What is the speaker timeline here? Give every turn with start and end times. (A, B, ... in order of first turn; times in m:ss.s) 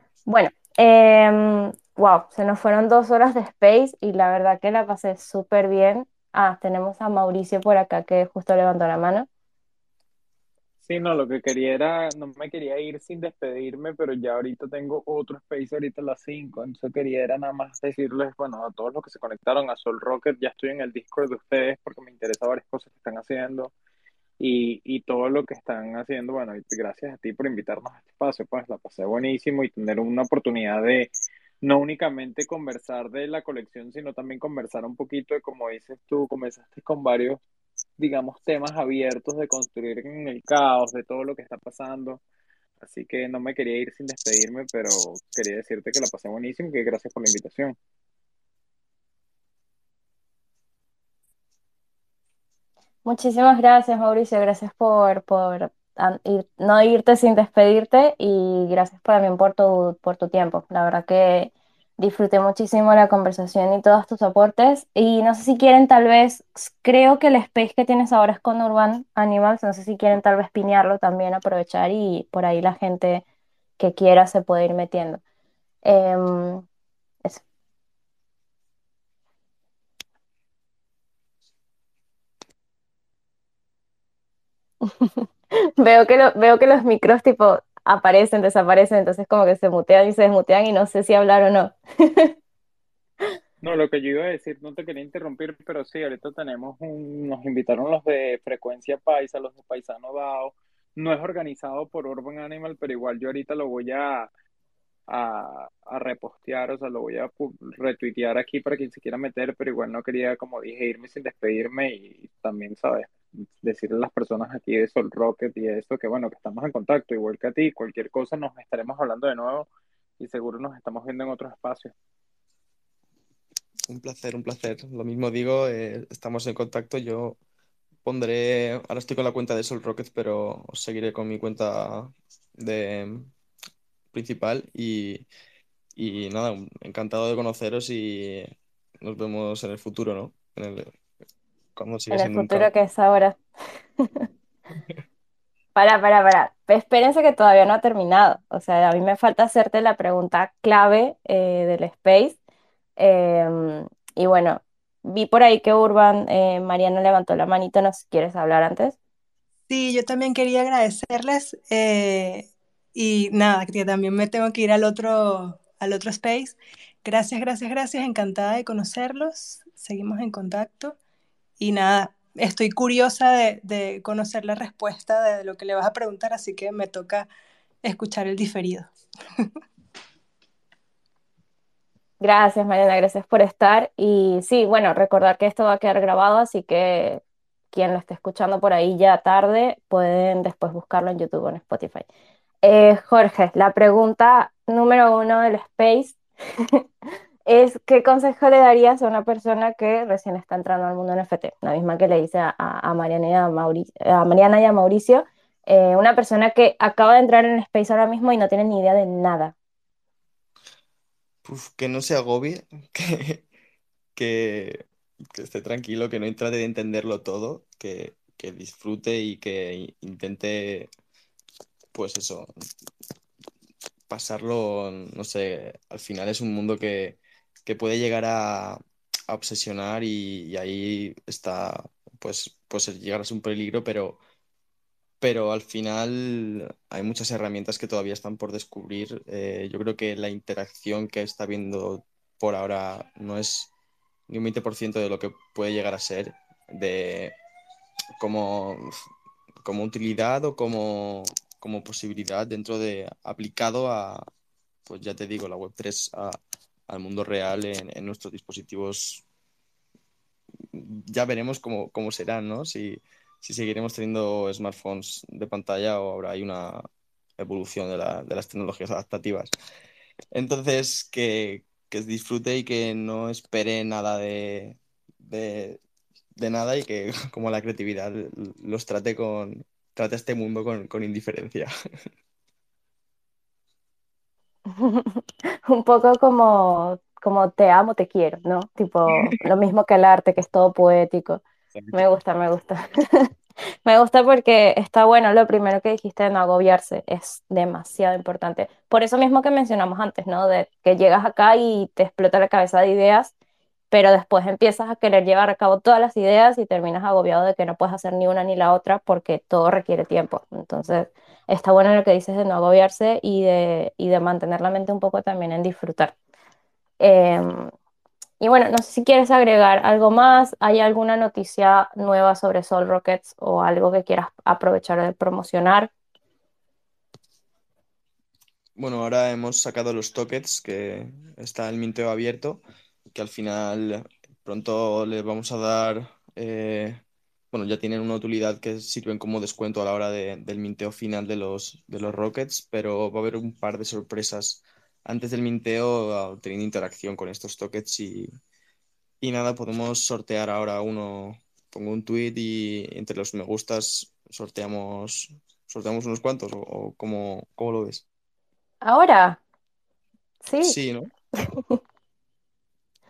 0:00.3-0:09.3 A
0:10.9-0:23.7 B
0:24.4-0:37.4 B
0:38.0-0:42.2 B
0:42.8-0:47.8 B
0:53.0-1:13.2 A
1:13.8-1:15.2 A
1:15.8-1:16.6 A
1:24.9-1:25.3 A
1:25.8-1:32.3 A
1:33.6-1:44.3 B
1:45.1-1:59.7 B
2:00.2-2:01.9 B
2:03.9-2:07.4 C
2:08.0-2:13.3 C
2:14.1-2:15.3 C
2:16.0-2:20.9 C
2:21.8-2:22.7 C
2:22.1-2:23.4 A
2:25.8-2:32.4 A
2:33.0-2:39.0 A
2:39.7-2:51.0 D
2:51.6-2:57.3 D
2:57.8-2:58.9 D
3:02.2-3:07.2 A
3:07.7-3:12.1 A
3:12.6-3:16.2 A
3:17.5-3:29.6 A
3:31.4-3:33.4 C
3:34.2-3:40.9 C
3:41.9-3:42.5 C
3:44.1-3:54.2 C
3:55.2-4:03.7 C
4:04.3-4:07.4 C
4:08.2-4:08.9 C
4:09.6-4:14.2 C
4:14.9-4:16.4 C
4:16.9-4:19.2 C
4:20.7-4:26.8 C
4:27.4-4:29.5 C
4:30.3-4:35.8 C
4:36.4-4:41.7 C
4:44.8-4:53.3 A
4:51.7-4:52.0 C
4:53.8-5:03.3 A
5:03.9-5:16.1 A
5:17.0-5:17.7 A
5:18.4-5:25.9 A
5:28.8-5:32.6 C
5:33.1-5:48.3 C
5:49.2-5:58.0 C
5:58.8-5:59.4 A
6:00.4-6:00.8 A
6:00.6-6:01.1 C